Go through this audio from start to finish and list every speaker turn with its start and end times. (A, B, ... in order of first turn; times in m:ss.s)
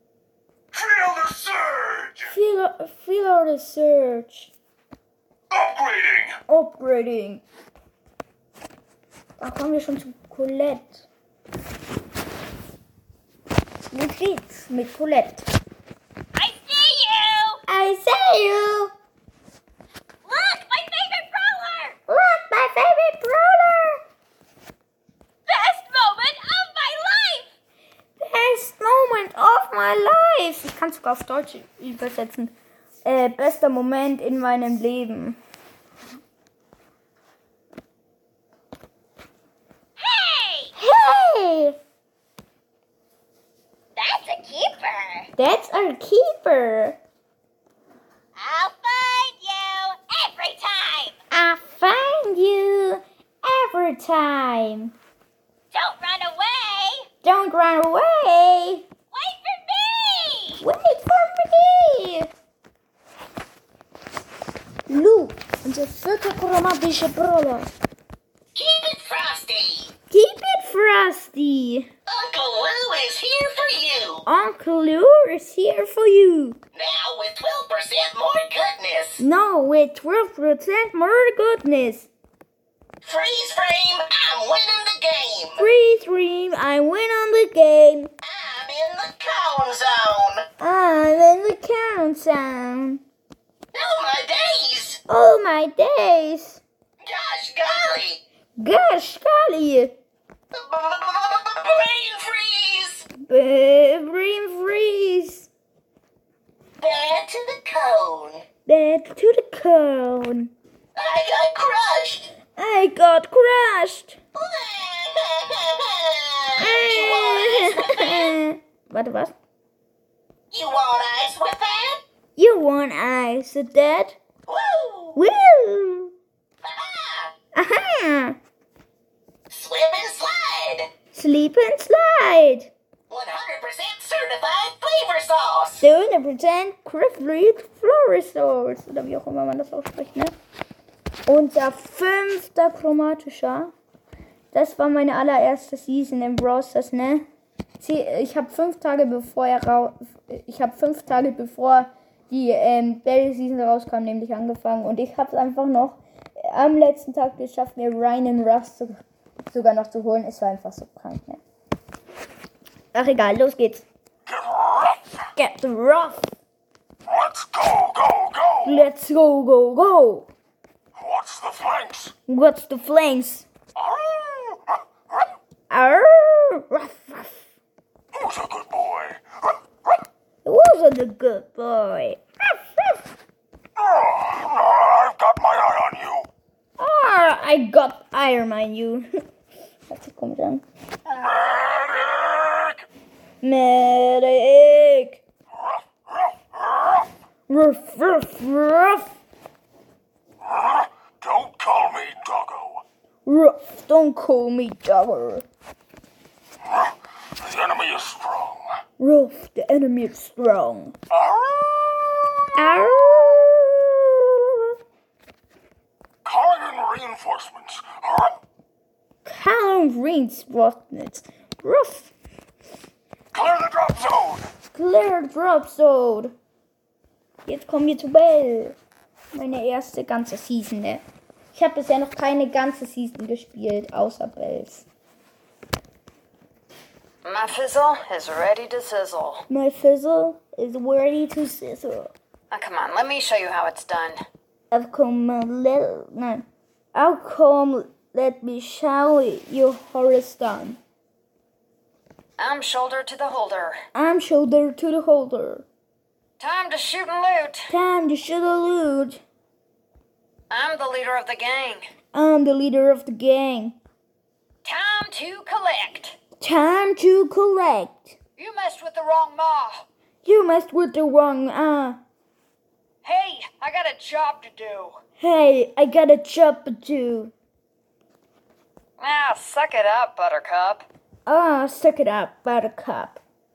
0:00.7-0:02.3 A
0:02.2-0:04.5 B
0:05.5-0:06.4 A
0:06.5-0:07.4 B
0:09.4-0:11.0 B
0:13.9-0:15.5 B
0:16.3-0:17.6 C
0:17.7-0:18.9 B
0:20.2-0:21.9 C
0:22.1-0:24.0 B
0:25.5-0:27.5 C
0:28.2-0:32.5 B
0:33.0-0:35.4 B
0:40.0-0:40.7 C
0:40.8-0:41.8 B
0:44.0-0:45.3 C
0:45.4-0:47.0 B
0:48.4-0:51.2 C
0:51.3-0:54.9 B
0:55.7-0:57.0 C
0:57.2-0:58.8 B
0:59.1-1:00.6 C
1:00.6-1:02.3 B
1:04.9-1:07.7 B
1:08.5-1:09.9 D
1:10.1-1:11.9 B
1:12.1-1:14.2 D
1:14.2-1:16.6 B
1:16.8-1:19.2 D
1:19.2-1:22.1 B
1:23.0-1:25.6 D
1:25.6-1:28.1 B
1:28.2-1:30.4 D
1:30.6-1:33.0 B
1:33.7-1:35.0 D
1:35.1-1:36.6 B
1:37.0-1:38.2 D
1:38.6-1:39.9 B
1:40.5-1:43.0 D
1:43.2-1:45.5 B
1:46.8-1:48.4 D
1:48.6-1:50.5 B
1:51.0-1:52.3 D
1:52.6-1:54.2 B
1:54.4-1:58.1 D
1:56.6-1:59.3 B
2:00.5-2:02.0 D
2:02.4-2:04.2 B
2:04.5-2:05.2 D
2:05.1-2:06.1 B
2:06.6-2:07.3 D
2:07.5-2:08.4 B
2:09.5-2:10.9 D
2:11.1-2:12.7 B
2:13.1-2:15.8 D
2:15.8-2:20.3 B
2:21.3-2:23.7 B
2:24.5-2:27.2 B
2:27.8-2:39.0 B
2:39.5-2:41.4 B
2:42.9-2:43.8 B
2:44.2-2:45.1 A
2:45.4-2:46.3 B
2:47.0-2:48.9 A
2:48.6-2:50.3 B
2:50.9-2:52.1 A
2:52.3-2:53.4 B
2:53.7-2:55.3 A
2:55.7-2:57.5 B
2:58.1-3:00.0 A
3:00.4-3:02.2 B
3:03.8-3:06.3 A
3:06.8-3:09.1 B
3:09.9-3:10.6 B
3:11.0-3:12.8 A
3:13.4-3:15.2 B
3:15.5-3:17.1 A
3:17.5-3:19.1 B
3:20.4-3:22.8 A
3:23.2-3:25.4 B
3:26.6-3:28.8 A
3:29.0-3:30.9 B
3:31.1-3:33.5 A
3:32.6-3:34.7 B
3:36.2-3:38.4 A
3:39.2-3:42.1 B
3:43.3-3:44.5 A
3:44.7-3:46.3 B
3:47.4-3:48.8 B
3:49.3-3:51.0 B
3:51.5-3:54.8 B
3:57.2-3:59.4 E
3:59.5-4:02.1 B
4:02.5-4:04.2 E
4:04.7-4:10.8 B
4:12.4-4:13.8 E
4:13.9-4:15.6 B
4:16.4-4:17.7 E
4:17.7-4:19.2 B
4:20.5-4:21.8 E
4:22.1-4:23.8 B
4:24.6-4:26.2 E
4:26.4-4:28.2 B
4:28.4-4:29.8 E
4:30.2-4:32.0 B
4:33.0-4:35.0 E
4:35.2-4:37.3 B
4:39.0-4:40.9 E
4:41.2-4:43.2 B